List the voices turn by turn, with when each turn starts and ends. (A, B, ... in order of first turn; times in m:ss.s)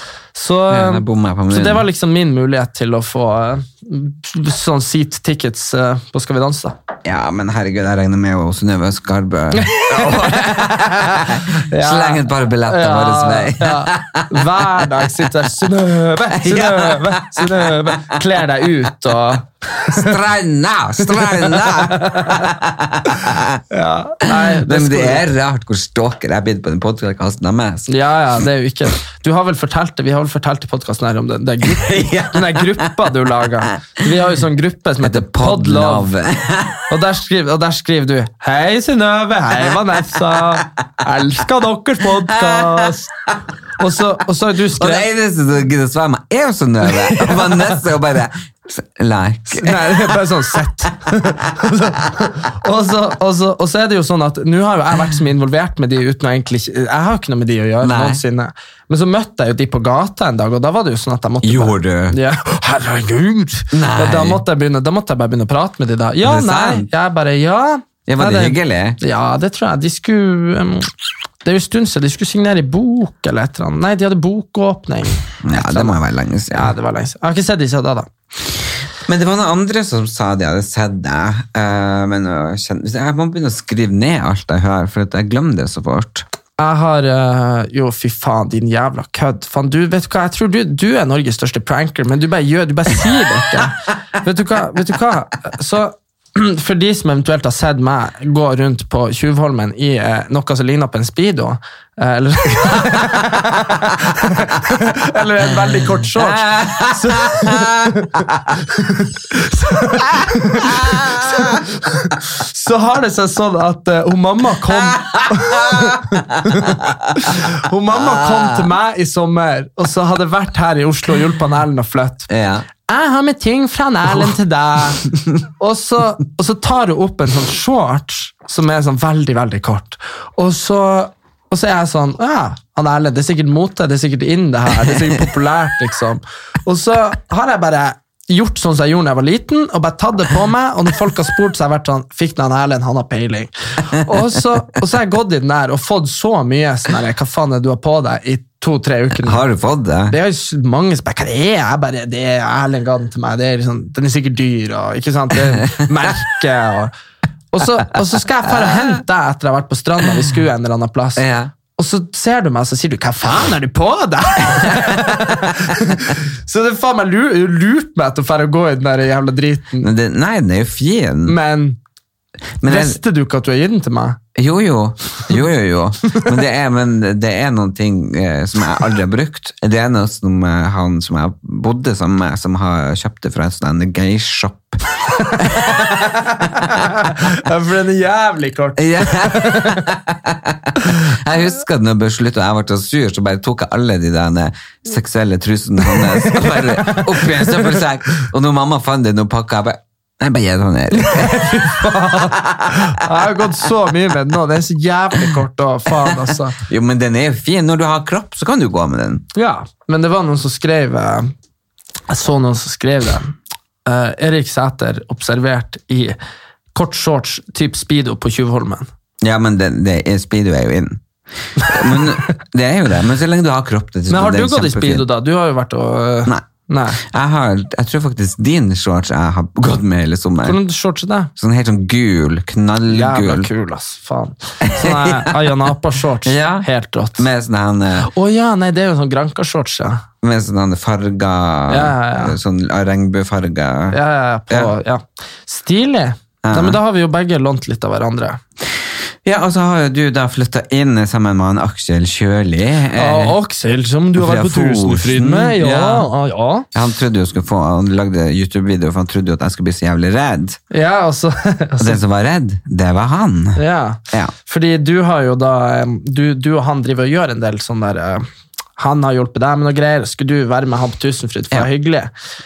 0:00.4-0:06.8 A
0:00.7-0:01.9 B
0:07.0-0:14.9 B
0:09.6-0:20.1 A
0:16.3-0:18.0 B
0:19.9-0:23.6 B
0:21.4-0:22.5 A
0:23.7-0:25.2 A
0:24.3-0:27.9 B
0:27.9-0:36.1 A
0:31.6-0:33.2 B
0:35.0-0:36.9 B
0:36.9-0:43.1 A
0:42.3-0:42.9 B
0:43.8-0:45.1 A
0:44.8-0:50.2 B
0:47.0-0:47.7 A
0:49.5-1:10.9 A
0:57.8-0:58.2 B
1:01.4-1:02.2 B
1:03.7-1:04.4 B
1:06.2-1:06.9 B
1:08.1-1:09.0 B
1:11.4-1:16.0 A
1:15.4-1:16.7 B
1:16.5-1:18.1 A
1:19.1-1:26.3 B
1:26.6-2:02.3 A
1:46.2-1:48.0 B
1:50.1-1:51.6 B
1:54.7-1:58.6 B
2:02.3-2:02.7 B
2:02.9-2:29.4 A
2:29.2-2:30.2 B
2:30.1-2:36.9 A
2:37.5-2:41.2 A
2:38.6-2:38.9 B
2:41.2-2:41.5 B
2:41.8-2:49.9 A
2:44.6-2:45.5 B
2:49.8-2:51.4 B
2:51.3-2:51.8 A
2:52.6-2:53.0 B
2:52.7-2:54.2 A
2:54.4-3:06.0 B
3:05.4-3:09.9 A
3:06.6-3:07.3 B
3:08.8-3:23.4 B
3:15.9-3:17.8 A
3:20.9-3:26.6 A
3:26.1-3:29.2 B
3:29.4-3:31.3 A
3:32.1-3:36.2 A
3:36.8-3:38.9 A
3:39.2-3:41.0 B
3:41.6-3:45.1 B
3:41.6-3:42.1 A
3:44.1-3:47.0 A
3:47.0-3:50.6 B
3:50.4-3:51.3 A
3:51.4-3:53.5 B
3:52.9-3:57.3 A
3:54.6-3:55.5 B
3:56.2-3:58.1 B
3:58.0-4:00.0 A
4:00.2-4:04.0 B
4:01.7-4:02.4 A
4:03.9-4:08.4 A
4:06.4-4:06.8 B
4:09.2-4:13.4 B
4:13.0-4:16.7 A
4:14.2-4:16.1 B
4:16.7-4:20.6 B
4:20.7-4:22.0 A
4:21.8-4:23.6 B
4:23.6-4:28.2 A
4:28.8-4:32.1 A